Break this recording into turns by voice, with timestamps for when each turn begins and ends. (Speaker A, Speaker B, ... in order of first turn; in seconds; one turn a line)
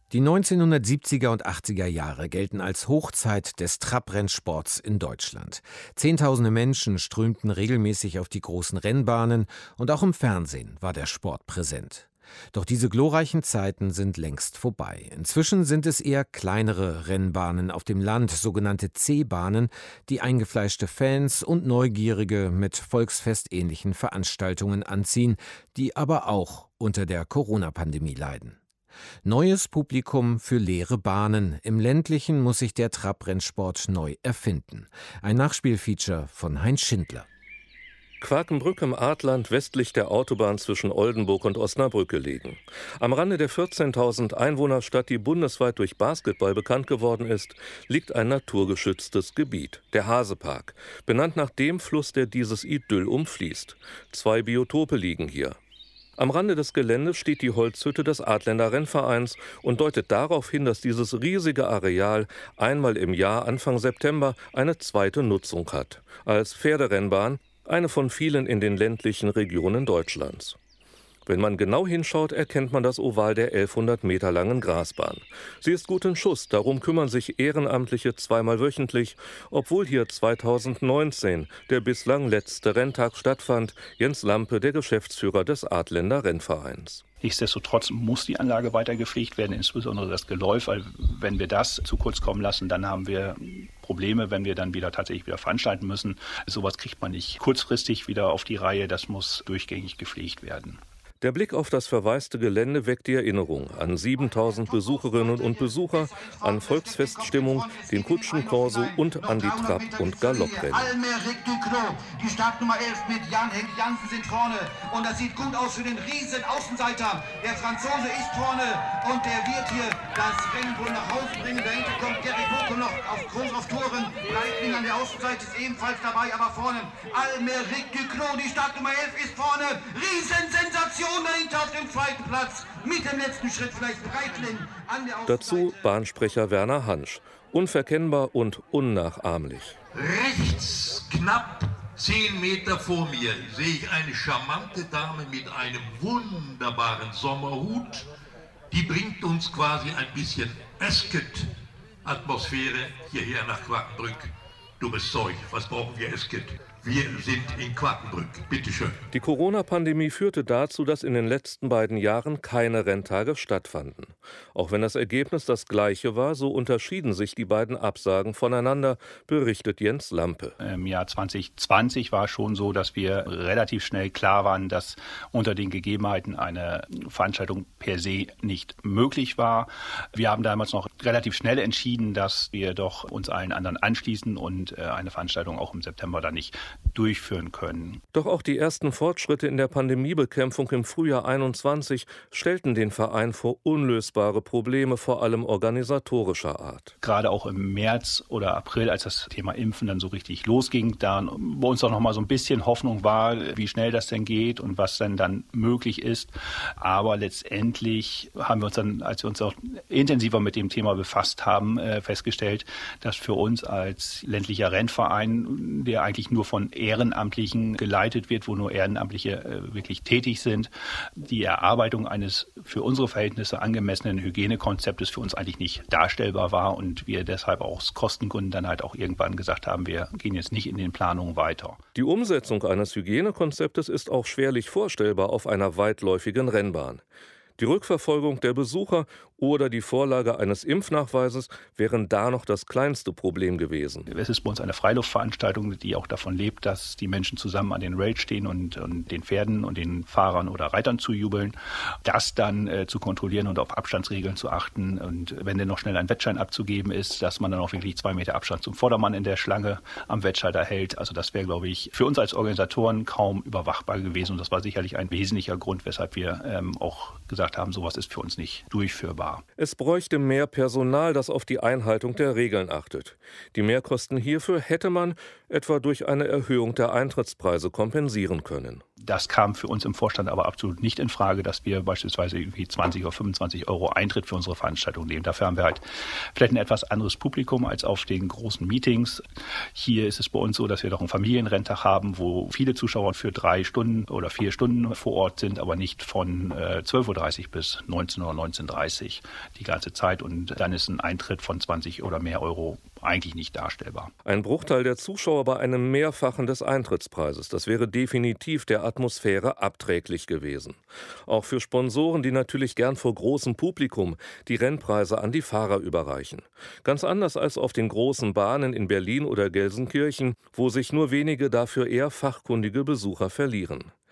Speaker A: 0.1-28.6
Speaker A: 29.2-37.3
Speaker B: 38.2-55.6
Speaker B: 56.2-70.6
Speaker B: 71.3-87.0
Speaker C: 87.2-100.8
Speaker B: 101.2-110.9
Speaker D: 104.2-135.8
Speaker B: 135.3-139.8
Speaker E: 139.9-148.1
Speaker E: 148.7-151.5
Speaker E: 152.0-159.0
Speaker B: 159.1-170.6
Speaker C: 170.6-188.0
Speaker B: 188.1-196.9
Speaker C: 197.0-231.8
Speaker B: 232.0-237.0
Speaker B: 237.6-244.1
Speaker C: 244.1-269.4
Speaker B: 269.6-278.8
Speaker C: 279.0-289.2
Speaker C: 289.8-304.1
Speaker B: 304.2-323.9